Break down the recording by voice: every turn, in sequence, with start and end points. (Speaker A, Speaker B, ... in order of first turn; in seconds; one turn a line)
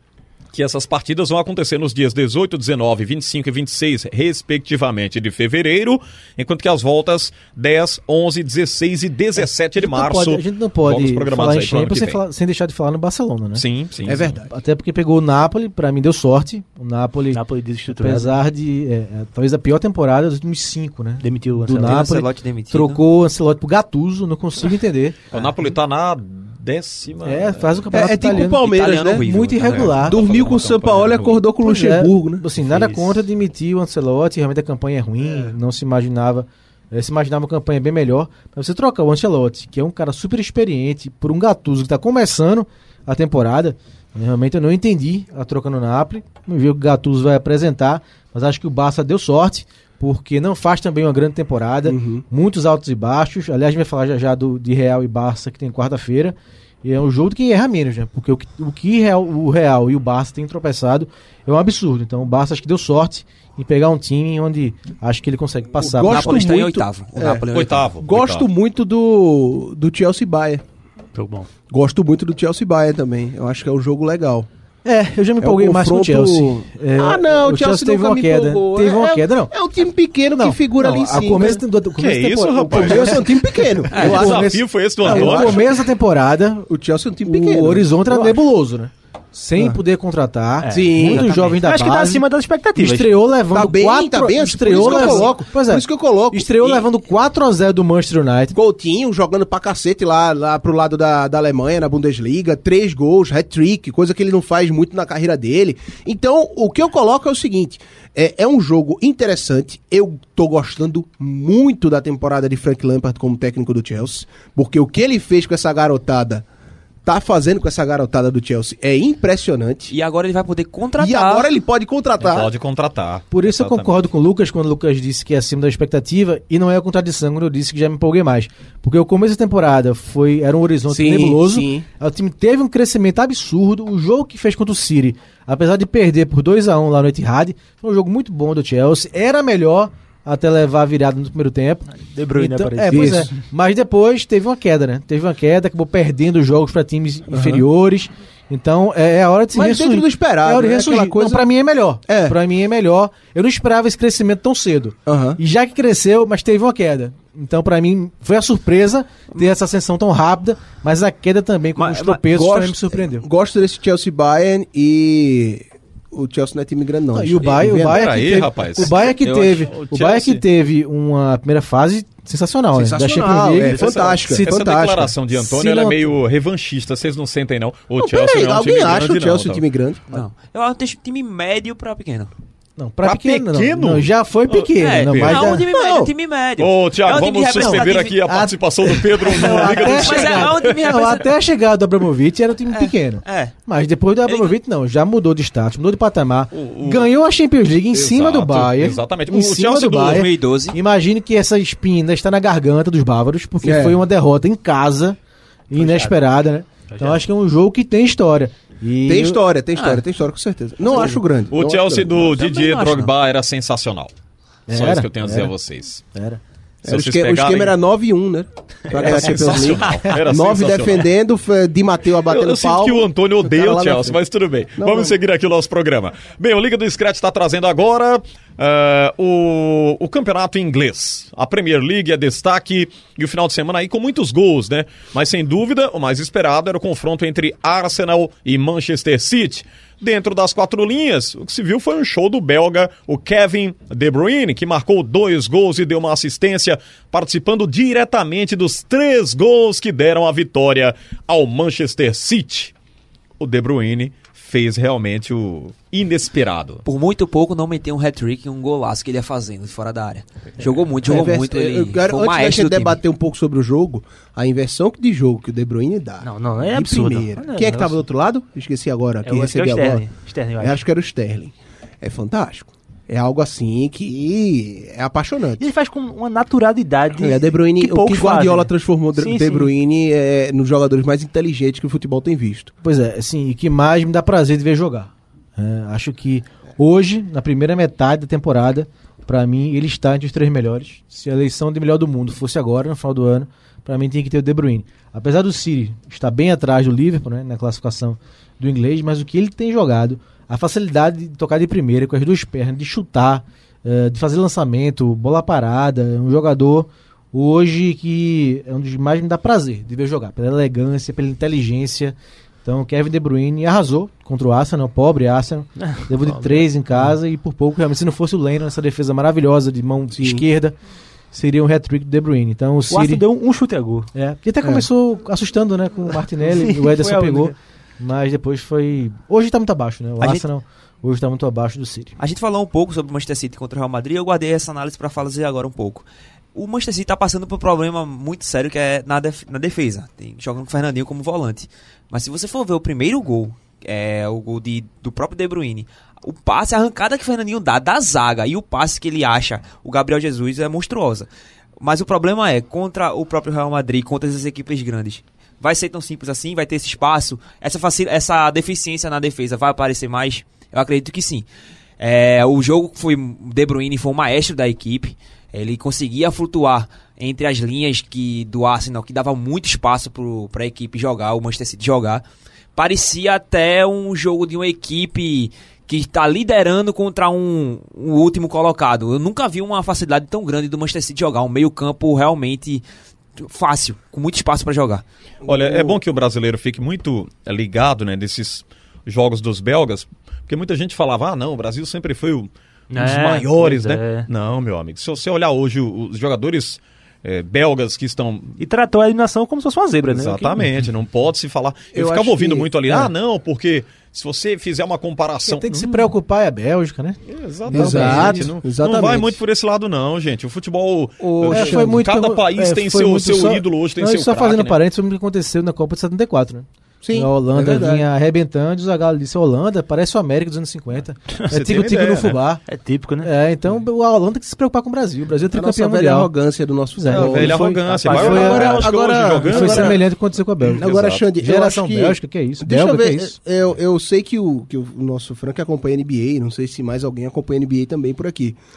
Speaker A: 0.5-12.2
Speaker B: 9.8-13.6
Speaker A: 13.5-14.4
Speaker C: 14.1-14.5
Speaker B: 14.5-25.2
Speaker D: 17.3-18.4
Speaker D: 21.2-22.1
Speaker E: 21.8-23.0
Speaker A: 25.3-27.9
Speaker B: 27.2-30.2
Speaker C: 27.9-29.2
Speaker E: 28.3-30.0
Speaker A: 29.6-31.4
Speaker C: 30.0-32.5
Speaker B: 31.6-66.3
Speaker D: 32.5-33.2
Speaker C: 51.9-52.2
Speaker C: 65.8-70.6
Speaker E: 66.1-67.9
Speaker A: 67.5-68.5
Speaker D: 71.1-71.5
Speaker C: 71.7-74.5
Speaker B: 74.8-79.5
Speaker C: 75.4-81.6
Speaker B: 80.4-86.7
Speaker A: 82.0-83.3
Speaker C: 82.7-85.7
Speaker A: 83.9-85.6
Speaker C: 86.7-88.4
Speaker B: 87.2-98.5
Speaker D: 90.6-93.1
Speaker C: 90.7-91.3
Speaker C: 93.5-96.8
Speaker D: 94.9-95.2
Speaker C: 98.5-116.4
Speaker C: 117.0-119.9
Speaker E: 119.9-121.5
Speaker C: 121.0-122.5
Speaker A: 122.2-124.0
Speaker B: 123.3-163.2
Speaker C: 130.9-131.8
Speaker D: 141.9-143.3
Speaker C: 142.9-143.3
Speaker C: 147.3-147.6
Speaker C: 149.5-151.4
Speaker C: 152.1-152.3
Speaker C: 155.1-155.4
Speaker E: 161.8-162.2
Speaker C: 162.3-168.0
Speaker B: 167.1-173.8
Speaker A: 167.6-169.1
Speaker E: 169.0-169.7
Speaker A: 169.7-170.4
Speaker C: 172.7-175.1
Speaker A: 173.7-179.6
Speaker B: 175.3-176.1
Speaker C: 178.0-180.2
Speaker E: 180.1-182.3
Speaker B: 182.8-185.6
Speaker A: 183.0-185.5
Speaker E: 184.7-188.2
Speaker C: 185.7-186.1
Speaker A: 186.6-190.8
Speaker B: 187.6-205.2
Speaker E: 189.3-191.3
Speaker E: 192.7-193.5
Speaker E: 194.2-194.5
Speaker A: 196.5-197.1
Speaker A: 197.9-200.3
Speaker E: 199.9-200.8
Speaker C: 203.6-204.0
Speaker B: 205.7-209.4
Speaker D: 205.8-206.1
Speaker D: 206.9-207.2
Speaker C: 209.1-212.3
Speaker E: 209.8-210.0
Speaker A: 211.5-214.1
Speaker E: 212.3-213.1
Speaker B: 214.7-215.5
Speaker A: 214.7-216.0
Speaker B: 216.1-216.4
Speaker C: 216.8-224.2
Speaker A: 216.8-217.8
Speaker A: 218.9-221.1
Speaker A: 222.2-252.7
Speaker C: 224.8-225.1
Speaker A: 253.4-256.8
Speaker E: 256.8-263.0
Speaker C: 261.0-275.6
Speaker D: 266.2-268.0
Speaker D: 269.2-270.8
Speaker D: 275.6-279.7
Speaker C: 277.2-282.7
Speaker B: 282.8-320.7
Speaker D: 315.8-317.1
Speaker C: 320.2-320.4
Speaker B: 321.3-323.2
Speaker D: 322.9-324.1
Speaker B: 324.1-332.1
Speaker D: 326.4-327.5
Speaker E: 332.2-351.3
Speaker E: 351.8-361.5
Speaker E: 362.0-372.2
Speaker E: 372.8-382.8
Speaker E: 383.4-385.0
Speaker C: 385.4-386.0
Speaker A: 385.4-398.6
Speaker D: 392.9-394.3
Speaker D: 398.6-400.6
Speaker A: 400.1-406.0
Speaker C: 401.9-402.7
Speaker B: 405.4-408.5
Speaker A: 407.3-414.8
Speaker C: 407.7-409.4
Speaker C: 411.2-412.0
Speaker B: 411.5-422.6
Speaker C: 417.0-418.0
Speaker A: 421.5-422.4
Speaker D: 422.7-423.3
Speaker B: 423.2-426.3
Speaker C: 425.5-430.0
Speaker B: 426.9-428.9
Speaker A: 427.1-430.0
Speaker D: 427.6-428.8
Speaker B: 429.4-430.8
Speaker A: 430.6-431.2
Speaker C: 430.7-438.6
Speaker B: 431.4-433.4